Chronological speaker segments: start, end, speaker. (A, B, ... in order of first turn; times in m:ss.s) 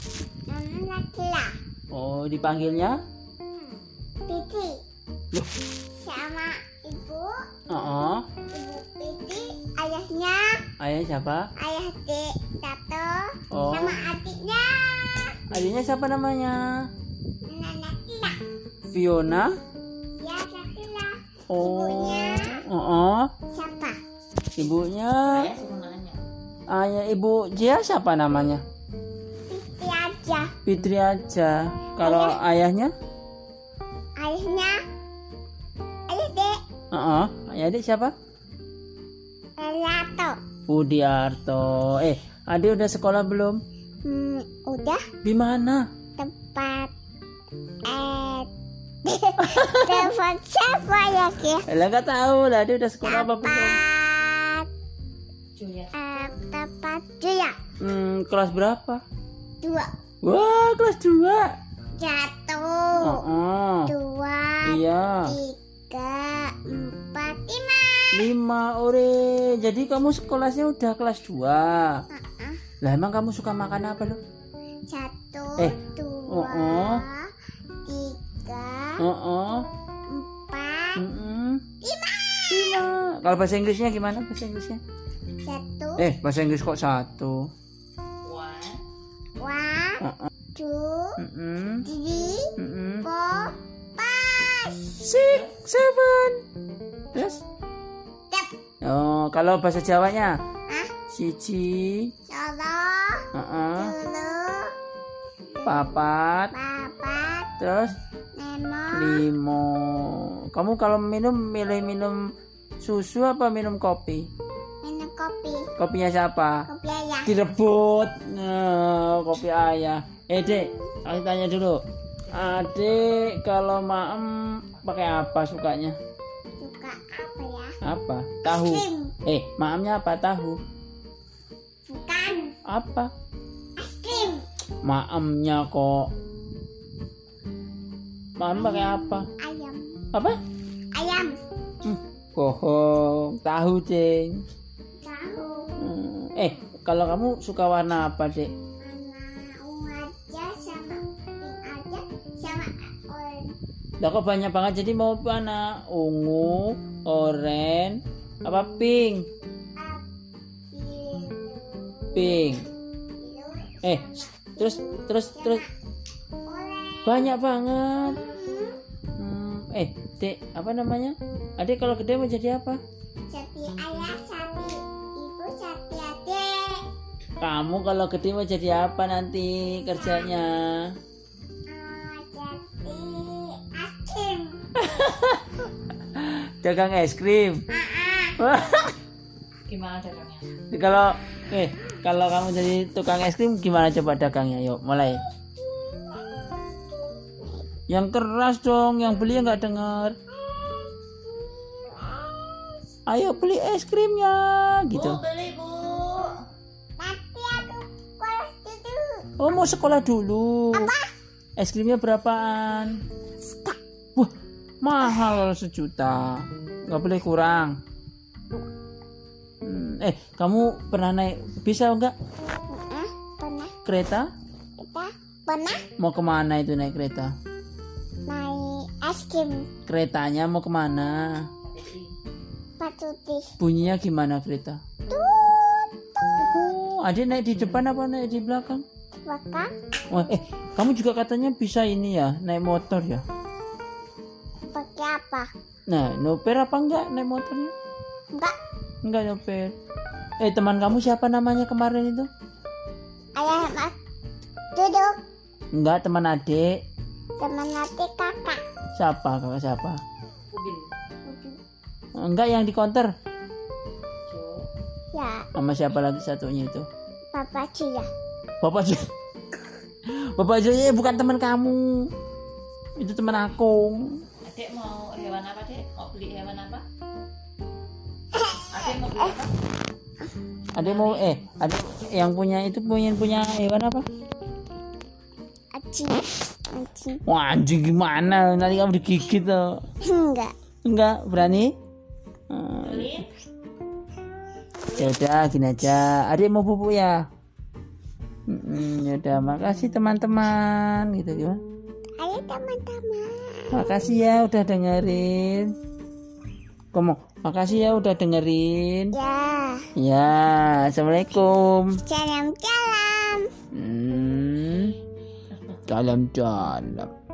0:00.5-0:01.6 A
0:01.9-0:03.0 B
0:04.3-0:04.8 A
0:06.0-0:07.4 A
0:07.7-0:08.2 B
0:08.5-0:10.6 A
0:10.8-0:11.5 B
0:11.6-0:15.5 A
0:13.5-0:14.0 B
0:15.5-0:16.6 B
0:17.5-0:18.4 A
0:18.9-0:19.6 B
0:20.2-0:22.6 A
0:21.5-0:23.3 B
0:23.5-0:24.0 A
0:24.6-0:25.5 B
0:25.3-0:26.2 C
0:26.7-0:28.6 B
0:29.5-0:30.5 A
0:30.6-0:32.9 B
0:32.0-0:32.4 A
0:34.2-0:34.8 A
0:36.1-0:36.6 A
0:36.9-0:38.1 B
0:39.6-0:40.4 A
0:40.7-0:43.6 B
0:44.0-0:45.0 A
0:45.2-0:45.8 B
0:46.2-0:46.9 A
0:47.9-0:48.5 A
0:49.0-0:51.7 A
0:49.4-0:50.1 B
0:51.7-0:53.8 B
0:53.0-0:54.7 A
0:55.6-0:55.9 C
0:55.9-0:57.6 A
0:57.8-0:59.0 B
0:59.6-0:59.9 A
1:00.2-1:01.6 B
1:02.0-1:03.2 A
1:03.0-1:03.9 B
1:03.9-1:08.3 A
1:04.6-1:05.4 B
1:08.1-1:12.0 B
1:12.1-1:12.6 A
1:12.8-1:14.2 B
1:14.9-1:17.3 A
1:15.6-1:17.0 B
1:17.8-1:19.0 A
1:19.0-1:19.7 B
1:20.1-1:21.0 A
1:21.0-1:21.6 B
1:21.8-1:22.8 A
1:22.5-1:24.8 B
1:25.4-1:26.1 A
1:26.0-1:27.5 B
1:28.2-1:28.8 C
1:29.4-1:31.2 A
1:30.0-1:30.3 B
1:31.2-1:31.9 B
1:31.8-1:35.0 A
1:32.6-1:33.1 B
1:35.0-1:36.4 B
1:37.1-1:37.4 B
1:38.8-1:40.4 B
1:40.7-1:40.9 A
1:41.1-1:42.1 B
1:42.3-1:44.7 A
1:43.3-1:44.0 B
1:45.5-1:46.0 A
1:45.6-1:46.5 B
1:46.5-1:47.5 A
1:47.6-1:48.0 B
1:48.4-1:49.2 A
1:48.9-1:52.2 B
1:52.8-1:54.3 B
1:54.8-1:55.7 A
1:55.8-1:56.7 B
1:56.7-1:57.3 A
1:57.3-2:06.0 B
2:06.6-2:07.8 A
2:07.8-2:10.6 B
2:08.4-2:09.2 A
2:11.9-2:12.6 A
2:12.7-2:13.1 B
2:13.8-2:14.5 A
2:14.8-2:16.1 B
2:18.4-2:19.3 B
2:18.6-2:20.0 A
2:20.9-2:21.4 A
2:21.8-2:24.4 B
2:25.0-2:25.7 A
2:25.8-2:28.5 B
2:28.8-2:33.5 A
2:34.0-2:39.3 B
2:39.8-2:40.0 A
2:40.7-2:42.5 A
2:42.1-2:42.6 B
2:43.2-2:45.7 A
2:43.8-2:45.6 B
2:46.5-2:47.3 A
2:47.1-2:48.2 B
2:48.0-2:48.8 A
2:49.2-2:52.8 B
2:53.3-2:56.8 A
2:57.4-3:01.0 B
2:59.9-3:00.4 A
3:01.7-3:04.8 A
3:04.8-3:07.7 B
3:07.7-3:08.4 A
3:08.4-3:09.0 B
3:09.7-3:10.5 C
3:10.7-3:15.3 B
3:15.7-3:16.1 A
3:17.9-3:20.2 B
3:20.3-3:22.9 A
3:23.1-3:25.2 B
3:24.9-3:26.4 C
3:27.0-3:29.3 A
3:29.4-3:30.9 B
3:30.7-3:31.1 A
3:31.6-3:33.0 B
3:33.4-3:33.8 A
3:34.2-3:37.8 B
3:39.6-3:42.2 B
3:42.7-3:43.7 A
3:43.8-3:44.3 B
3:44.8-3:45.8 A
3:46.0-3:47.3 B
3:48.3-3:49.7 A
3:49.9-3:51.5 B
3:51.7-3:52.1 C
3:52.8-3:53.5 A
3:53.6-3:54.8 B
3:55.1-3:56.5 A
3:56.4-3:58.8 B
3:59.3-3:59.7 A
4:00.1-4:03.2 B
4:04.7-4:05.5 A
4:05.9-4:07.7 B
4:09.0-4:09.7 B
4:10.4-4:12.3 B
4:13.4-4:14.0 A
4:14.7-4:15.2 A
4:15.7-4:16.8 B
4:17.4-4:18.6 A
4:19.0-4:20.0 B
4:20.5-4:20.9 C
4:21.2-4:21.6 A
4:22.2-4:23.1 B
4:24.3-4:24.7 C
4:25.1-4:25.5 A
4:25.6-4:26.9 B
4:27.3-4:28.1 A
4:28.6-4:29.1 B
4:30.1-4:32.1 B
4:33.0-4:34.2 B
4:34.4-4:36.8 C
4:38.3-4:39.4 A
4:38.7-4:39.5 C
4:40.7-4:44.1 B
4:40.8-4:41.5 C
4:45.8-4:47.2 A
4:47.3-4:49.8 B
4:50.0-4:50.5 A
4:50.8-4:51.7 B
4:52.5-4:53.2 B
4:52.8-4:53.3 C
4:54.9-4:57.2 B
4:58.5-5:01.6 B
5:02.2-5:03.9 A
5:03.7-5:05.7 B
5:06.9-5:09.2 B
5:09.1-5:09.9 A
5:10.0-5:12.0 B
5:12.1-5:13.5 A
5:13.7-5:15.0 B
5:15.9-5:17.1 B